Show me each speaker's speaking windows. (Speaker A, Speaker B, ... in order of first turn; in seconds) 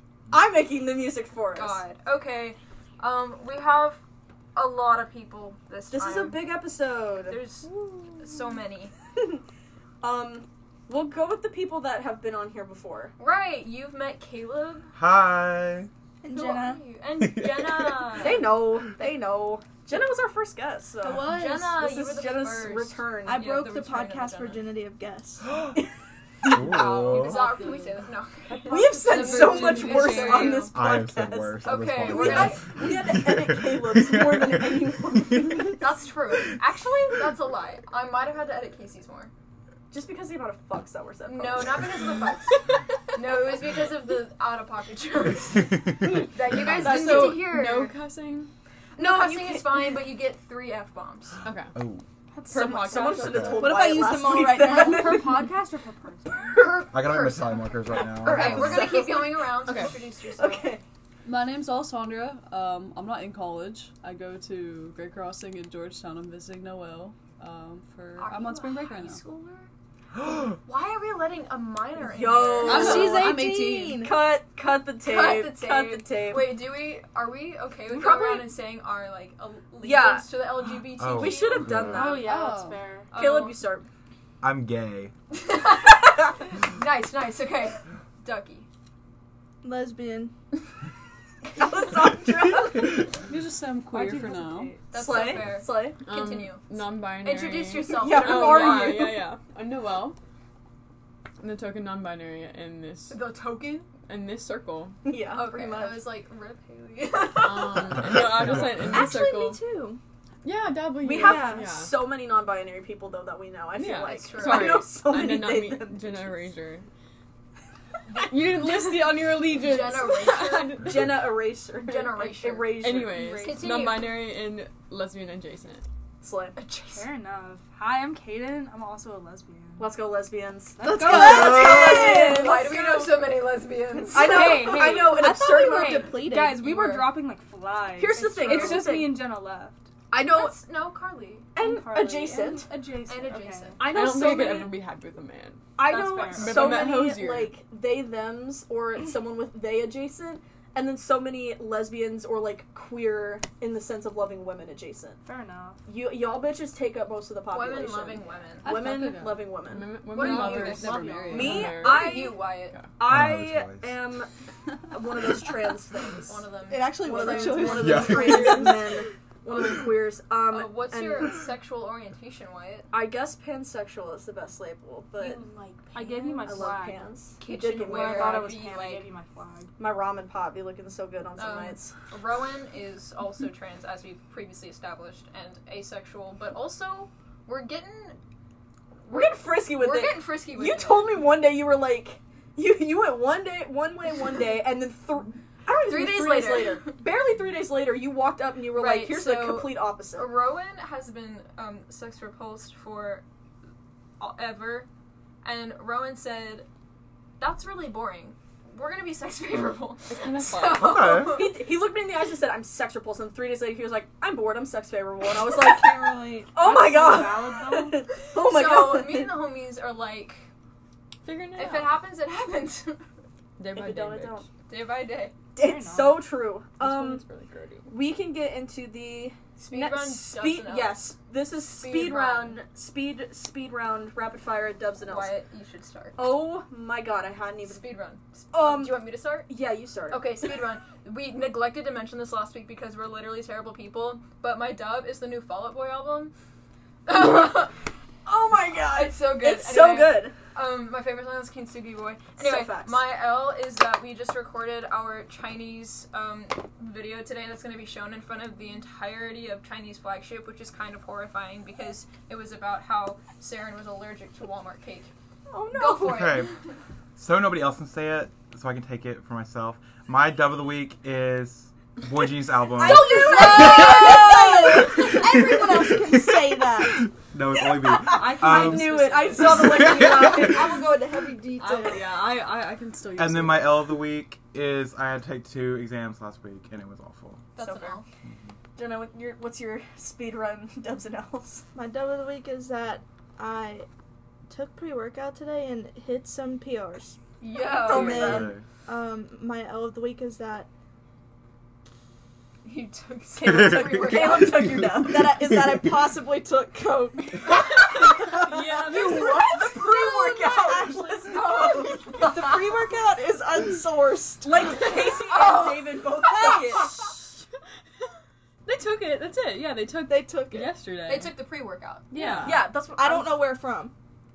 Speaker A: 0.3-1.8, 5.9-8.3, 9.2-9.4, 10.0-13.1, 18.1-23.4, 28.7-35.9, 39.9-41.8, 49.0-49.9, 52.5-55.5, 56.5-56.9, 58.2-60.8, 72.0-73.4, 74.0-76.7, 77.9-78.6, 79.8-80.3, 81.1-82.4, 83.1-83.9, 91.5-93.1, 94.9-96.0, 97.9-99.3, 105.0-106.1, 111.0-116.5, 120.8-123.5, 126.2-126.6, 129.8-133.2, 134.1-136.0, 138.0-139.3, 140.1-140.6, 141.6-142.7, 143.8-144.8, 145.8-155.2, 155.8-162.4, 163.0-164.3, 164.9-166.4, 167.0-171.3, 172.9-175.4, 176.4-178.6, 179.8-181.9, 189.1-200.4, 211.1-219.4, 223.7-224.5, 225.6-227.2, 227.9-235.3, 236.2-237.8, 238.5-240.3, 248.3-250.3, 252.4-253.0, 265.5-266.2, 273.0-275.0, 277.9-280.8, 287.6-288.0, 288.8-291.7, 297.8-298.5, 303.4-305.3, 308.1-312.5, 314.4-316.9, 322.4-323.4
Speaker B: 1.5-4.0, 4.5-6.5, 7.2-8.9, 13.2-14.9, 16.3-18.6, 21.0-24.6, 26.5-30.7, 31.6-32.7, 35.8-39.3, 41.2-48.0, 49.0-51.4, 56.5-60.7, 68.2-69.7, 70.5-74.0, 75.0-82.5, 83.1-83.6, 85.3-88.7, 94.9-99.0, 103.1-103.9, 105.3-108.8, 114.2-114.9, 118.1-121.0, 121.8-124.3, 126.6-127.1, 131.3-135.0, 136.5-137.2, 138.5-138.8, 140.1-141.5, 143.0-144.2, 157.5-158.7, 160.1-162.8, 166.3-168.2, 170.5-172.9, 175.2-176.8, 177.4-179.1, 181.4-188.2, 189.2-191.3, 195.7-197.0, 198.7-203.2, 204.2-204.9, 205.4-206.7, 207.4-211.6, 218.3-220.5, 221.6-223.0, 224.7-225.3, 229.6-231.1, 231.7-232.6, 235.1-236.3, 237.7-239.5, 240.1-246.3, 247.1-247.7, 248.9-265.1, 265.7-266.7, 272.8-275.1, 287.6-288.0, 297.4-298.5, 302.6-304.9, 311.2-312.3, 321.1-322.1
Speaker C: 14.9-15.9, 17.1-18.2, 26.4-27.5, 30.7-34.7, 46.5-46.9, 51.8-52.0, 53.2-53.7, 56.9-59.0, 81.0-82.0, 84.4-85.1, 163.0-164.0, 167.7-168.7, 210.8-211.4, 266.0-266.5, 267.2-273.9, 275.1-280.8, 283.2-287.4, 298.2-298.6
Speaker D: 16.2-16.8, 21.0-21.8, 23.3-25.5, 53.6-55.2, 72.6-74.2, 89.6-90.3, 108.8-110.0, 130.8-132.3, 135.1-136.6, 166.7-169.0, 215.4-216.5, 272.8-277.1, 280.2-282.1, 291.8-293.9, 294.5-297.2, 297.8-300.7, 304.9-308.2, 308.9-314.7, 315.3-316.8, 320.1-320.8, 322.9-323.9
Speaker E: 27.4-27.9, 29.1-30.7, 52.9-53.2, 61.2-69.2, 72.7-73.8, 82.3-82.7, 93.2-94.5, 160.2-161.5
Speaker F: 28.5-30.3, 52.3-53.3, 54.6-56.6, 81.9-83.1, 93.9-94.8, 126.9-129.9, 130.8-132.8, 134.1-139.9, 141.6-143.8, 145.8-146.9, 155.2-155.8, 175.9-177.0, 177.7-179.7, 216.6-218.0, 225.6-226.3
Speaker G: 46.6-48.5, 51.4-51.8, 59.7-60.0, 94.0-94.7, 96.0-100.2, 101.4-103.2, 104.0-105.0, 107.3-109.6, 110.4-112.1, 113.7-116.9, 118.1-121.2, 122.8-125.8, 143.8-145.7, 146.3-147.6, 158.6-162.9, 168.3-168.7, 210.1-211.0, 221.2-222.0, 223.6-224.5, 226.8-227.9, 278.2-280.1, 281.6-283.9, 308.4-309.4, 318.7-321.4, 322.1-322.8